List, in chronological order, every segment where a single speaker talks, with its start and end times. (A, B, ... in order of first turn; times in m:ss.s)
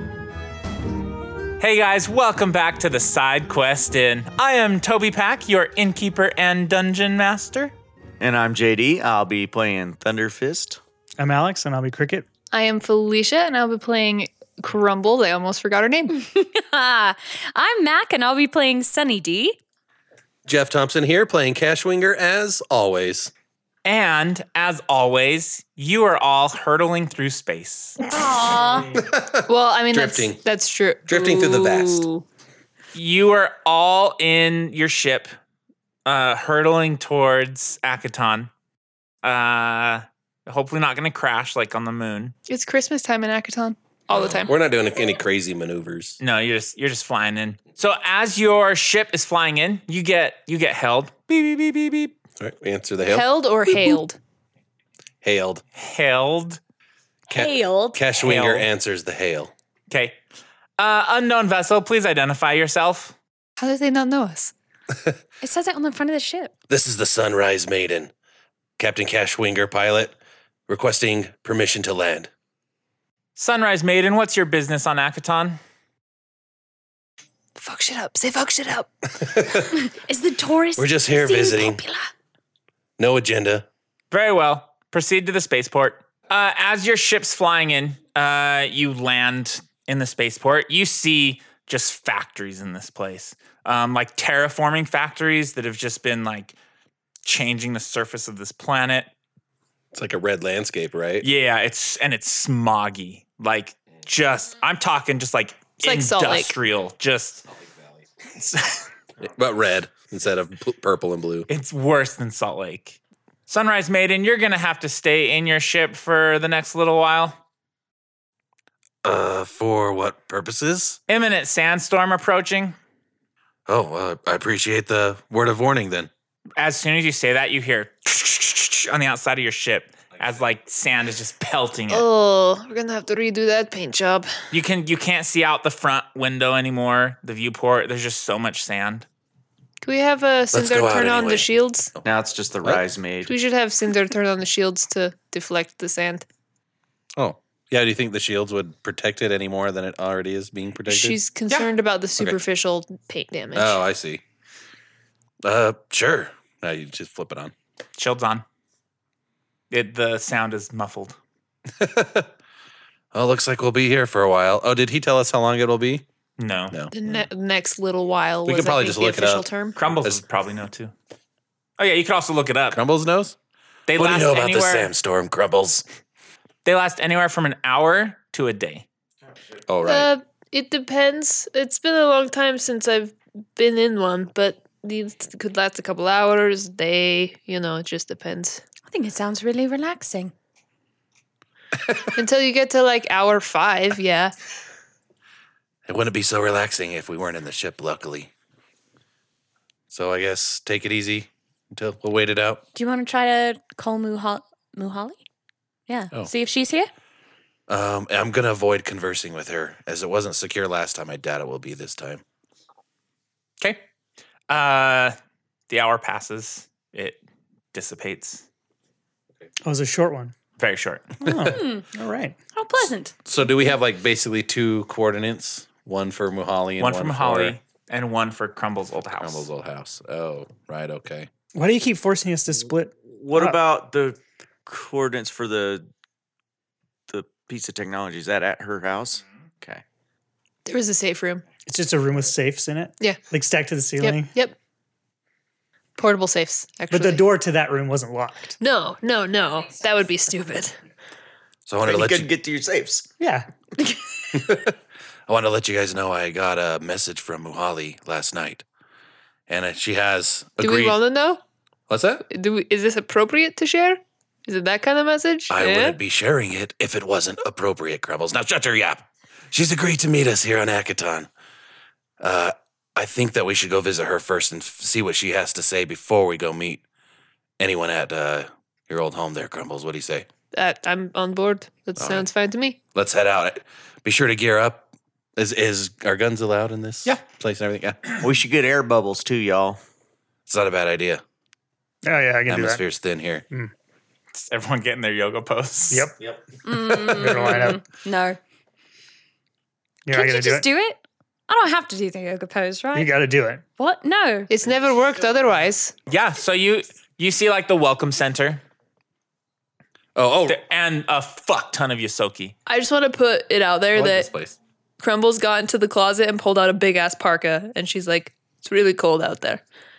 0:01.6-0:07.7 A
0:08.2-0:10.8 B
0:11.2-0:12.2 C
0:12.5-0:16.1 D
0:16.1-0:19.6 E
0:20.4-0:23.3 F
0:23.8-0:28.0 A
0:28.0-0:28.9 E
0:28.9-0:30.4 F
0:29.5-0:32.2 D
0:31.1-0:32.0 F
0:32.9-0:35.3 A
0:36.0-0:38.5 A
0:39.2-0:42.3 A
0:42.5-0:44.5 D
0:44.1-0:46.2 F
0:46.2-0:52.1 A
0:52.4-0:53.2 F
0:53.0-0:54.2 D
0:55.2-0:55.6 F
0:55.8-0:56.6 A
0:57.3-0:58.0 E
0:57.3-0:59.5 F
0:58.2-0:58.7 A
0:59.9-1:00.2 A
1:00.8-1:03.1 A
1:03.6-1:04.5 D
1:05.4-1:06.5 E
1:06.7-1:08.1 F
1:08.8-1:10.2 F
1:10.7-1:12.3 F
1:13.4-1:15.6 A
1:17.6-1:18.9 D
1:19.2-1:19.7 F
1:19.7-1:22.1 E
1:20.8-1:21.8 F
1:23.0-1:23.7 F
1:24.1-1:36.5 A
1:37.2-1:39.1 A
1:39.9-1:41.3 F
1:41.2-1:47.4 A
1:45.8-1:46.5 D
1:48.4-1:48.9 A
1:49.2-1:51.5 F
1:51.5-1:57.4 A
1:59.0-2:01.0 F
2:01.1-2:02.8 A
2:03.7-2:06.1 F
2:06.6-2:12.1 A
2:11.9-2:14.3 D
2:14.5-2:19.0 A
2:19.8-2:21.9 D
2:20.5-2:21.5 F
2:22.0-2:23.4 B
2:23.2-2:26.2 D
2:27.2-2:31.2 F
2:30.9-2:33.8 D
2:33.5-2:34.2 F
2:35.4-2:37.5 F
2:38.0-2:38.4 A
2:39.7-2:41.2 A
2:41.7-2:42.3 F
2:43.1-2:46.0 F
2:46.4-2:46.8 A
2:46.9-2:49.8 D
2:48.4-2:49.5 F
2:49.8-2:50.9 A
2:51.8-2:52.8 A
2:52.7-2:53.3 F
2:53.9-2:54.9 A
2:53.9-2:55.8 F
2:56.6-2:58.8 A
2:59.7-3:00.1 F
2:59.8-3:08.6 D
3:08.9-3:10.3 E
3:12.1-3:14.3 D
3:15.8-3:18.3 F
3:19.9-3:22.6 F
3:22.7-3:25.2 E
3:25.9-3:26.9 E
3:27.7-3:32.2 F
3:34.5-3:35.2 A
3:35.7-3:37.2 A
3:37.7-3:38.4 A
3:39.6-3:40.3 C
3:40.6-3:41.1 A
3:41.2-3:42.4 C
3:41.2-3:41.9 E
3:42.5-3:43.2 E
3:43.2-3:47.6 F
3:46.8-3:49.5 A
3:49.2-3:51.3 F
3:51.5-3:53.6 C
3:53.1-3:55.9 B
3:57.1-3:59.8 B
4:00.6-4:01.4 D
4:01.6-4:04.3 C
4:04.0-4:04.5 D
4:06.0-4:07.3 D
4:06.9-4:08.6 C
4:08.6-4:10.8 D
4:11.7-4:12.3 F
4:11.8-4:13.1 B
4:13.2-4:13.5 C
4:14.3-4:14.8 F
4:15.3-4:18.6 F
4:19.5-4:21.0 F
4:20.6-4:21.4 D
4:21.9-4:22.2 F
4:22.3-4:26.0 D
4:25.5-4:31.3 F
4:32.2-4:36.8 F
4:37.6-4:40.3 F
4:40.5-4:42.8 D
4:42.0-4:42.2 F
4:42.9-4:48.0 F
4:48.2-4:49.8 B
4:50.5-4:51.2 F
4:52.0-4:52.8 C
4:52.5-4:53.4 F
4:54.3-4:56.1 A
4:56.6-4:58.4 E
4:56.8-4:57.4 F
4:57.1-4:57.8 C
5:00.0-5:00.6 C
5:00.1-5:03.1 E
5:02.9-5:03.6 C
5:03.8-5:04.5 E
5:04.5-5:05.9 D
5:06.1-5:08.6 A
5:10.2-5:10.6 F
5:10.5-5:12.5 A
5:12.6-5:14.3 D
5:13.9-5:14.6 F
5:15.0-5:19.6 D